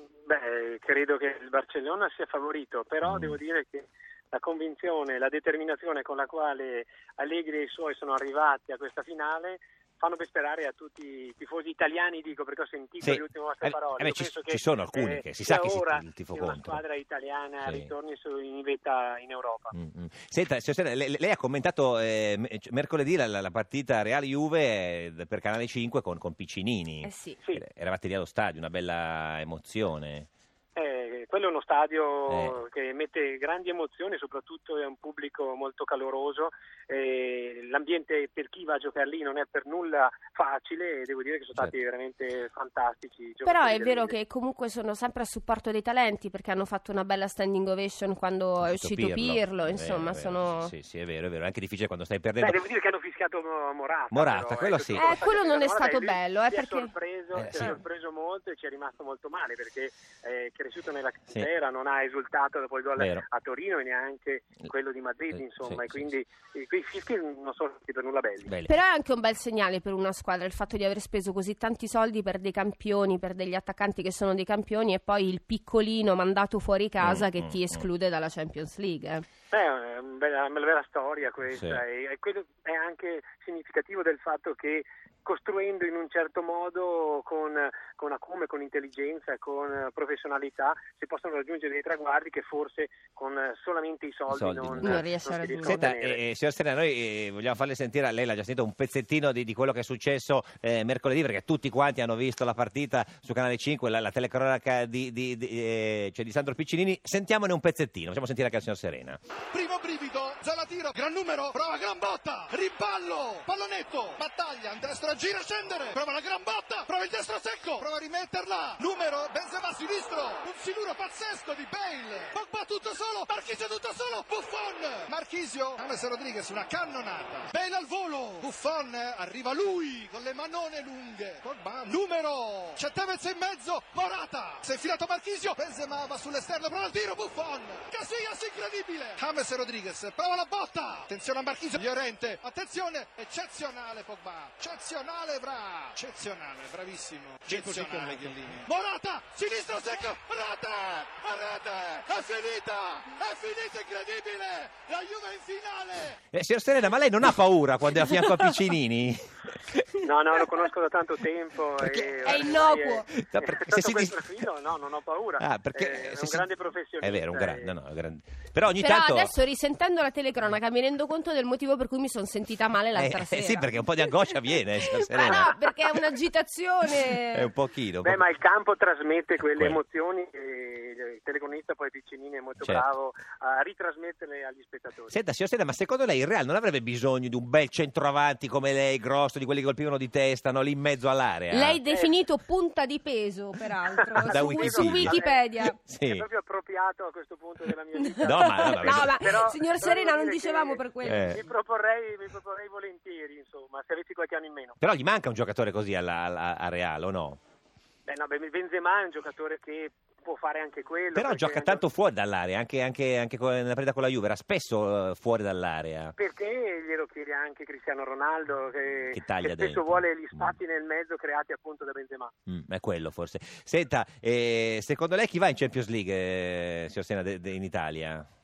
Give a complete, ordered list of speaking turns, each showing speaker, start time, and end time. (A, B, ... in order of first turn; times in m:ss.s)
0:00.2-0:19.7 A
0:03.0-0:03.4 B
0:13.0-0:16.8 B
0:17.6-0:17.9 B
0:19.7-0:30.3 B
0:27.0-0:27.4 C
0:30.8-0:44.2 A
0:32.3-0:32.6 B
0:43.4-0:50.7 C
0:48.6-0:52.6 B
0:52.4-1:08.5 A
0:54.1-0:55.1 B
0:54.9-0:56.9 C
0:57.3-0:57.8 B
1:03.0-1:03.2 B
1:05.3-1:06.1 B
1:08.6-1:19.2 C
1:17.0-1:17.8 B
1:19.5-1:36.2 A
1:21.5-1:21.8 B
1:34.3-1:35.1 B
1:34.8-1:35.9 C
1:35.6-1:49.2 B
1:49.5-2:36.2 D
2:27.5-2:28.3 B
2:36.3-2:39.3 B
2:40.0-2:47.7 A
2:42.2-2:43.1 C
2:43.1-2:44.4 B
2:45.4-2:46.5 B
2:47.0-2:49.3 B
2:48.8-2:53.7 C
2:52.9-2:55.5 B
2:54.7-2:57.5 C
2:57.3-2:58.2 B
2:58.0-3:05.1 A
2:59.5-2:59.8 B
3:02.6-3:02.9 B
3:05.1-3:11.8 B
3:11.5-3:15.8 C
3:11.9-3:12.2 A
3:13.9-3:15.5 A
3:14.2-3:16.2 B
3:16.0-3:24.8 A
3:18.0-3:21.4 C
3:18.2-3:19.2 B
3:21.0-3:21.4 B
3:24.8-3:27.4 B
3:28.1-3:31.8 A
3:31.1-3:36.1 B
3:36.2-3:42.3 A
3:39.1-3:40.5 B
3:42.5-3:48.2 B